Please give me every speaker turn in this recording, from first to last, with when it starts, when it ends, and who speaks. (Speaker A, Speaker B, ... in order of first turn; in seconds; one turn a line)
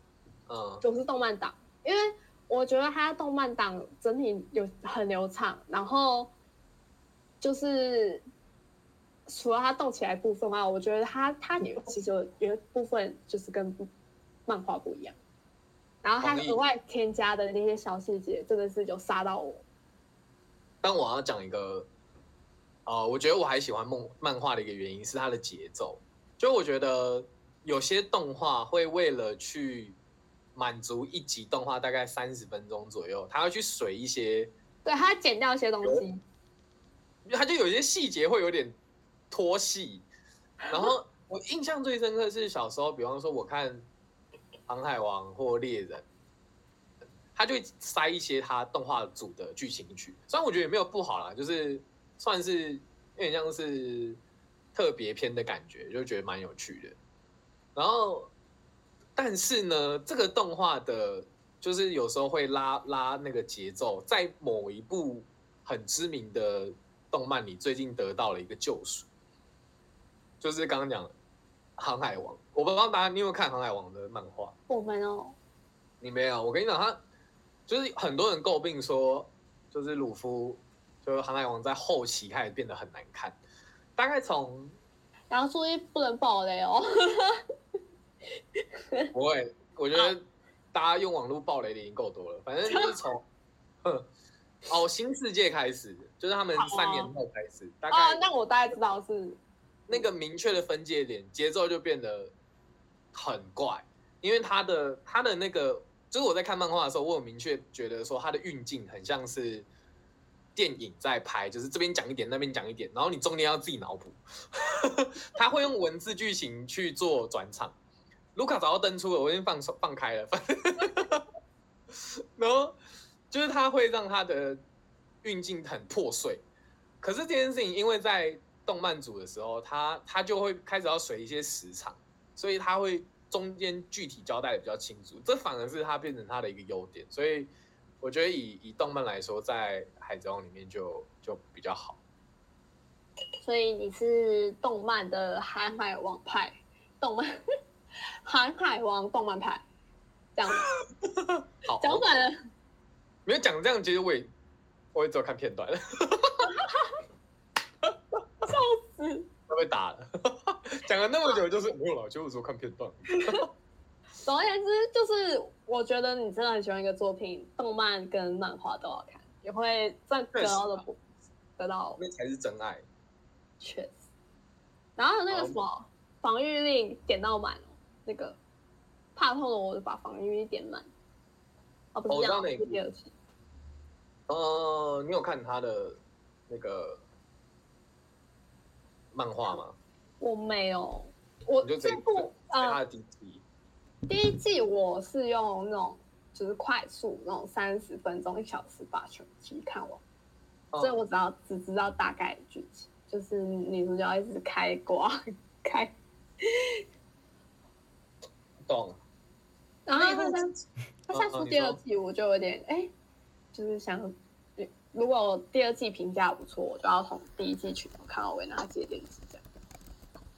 Speaker A: 0.5-0.8
Speaker B: 0.8-6.3
Speaker B: 7.4-8.2
Speaker B: 9.3-13.9
Speaker B: 14.5-15.2
Speaker B: 16.0-19.6
Speaker A: 16.2-16.6
Speaker A: 20.8-21.9
Speaker A: 22.9-30.0
Speaker A: 30.5-34.5
Speaker B: 34.8-36.2
Speaker A: 37.2-38.8
Speaker A: 39.3-40.0
Speaker A: 40.7-43.9
Speaker A: 44.7-46.0
Speaker A: 47.3-54.2
Speaker A: 54.7-57.0
Speaker A: 57.7-58.3
Speaker A: 59.1-69.1
Speaker A: 70.4-71.1
Speaker A: 71.8-74.5
Speaker B: 74.7-75.3
Speaker A: 76.0-77.0
Speaker A: 77.7-83.4
Speaker A: 84.0-84.7
Speaker B: 85.3-87.4
Speaker A: 89.1-93.2
Speaker B: 92.7-93.0
Speaker A: 94.7-98.2
Speaker B: 96.5-97.1
Speaker B: 97.9-99.4
Speaker A: 99.9-102.3
Speaker A: 103.1-109.7
Speaker A: 110.5-117.8
Speaker A: 118.3-121.2
Speaker A: 121.9-122.7
Speaker A: 123.3-124.6
Speaker A: 125.2-126.4
Speaker A: 127.0-142.0
Speaker B: 143.4-147.3
Speaker B: 148.2-149.6
Speaker B: 150.3-150.7
Speaker A: 151.0-152.1
Speaker B: 151.8-152.3
Speaker A: 153.2-154.3
Speaker A: 154.9-156.5
Speaker B: 158.4-159.3
Speaker A: 159.5-163.5
Speaker B: 164.2-171.0
Speaker A: 170.3-170.8
Speaker B: 171.6-172.0
Speaker A: 172.0-172.8
Speaker B: 173.6-173.9
Speaker B: 175.0-178.4
Speaker A: 175.3-175.6
Speaker B: 179.2-180.9
Speaker B: 181.9-183.1
Speaker A: 182.1-182.8
Speaker A: 184.3-187.0
Speaker A: 189.1-189.8
Speaker B: 190.2-192.8
Speaker A: 191.6-193.4
Speaker B: 194.1-200.0
Speaker A: 200.7-201.0
Speaker B: 200.8-206.8
Speaker A: 208.6-209.0
Speaker B: 209.8-210.5
Speaker A: 209.9-210.4
Speaker B: 211.1-212.9
Speaker A: 211.1-211.8
Speaker B: 213.5-219.4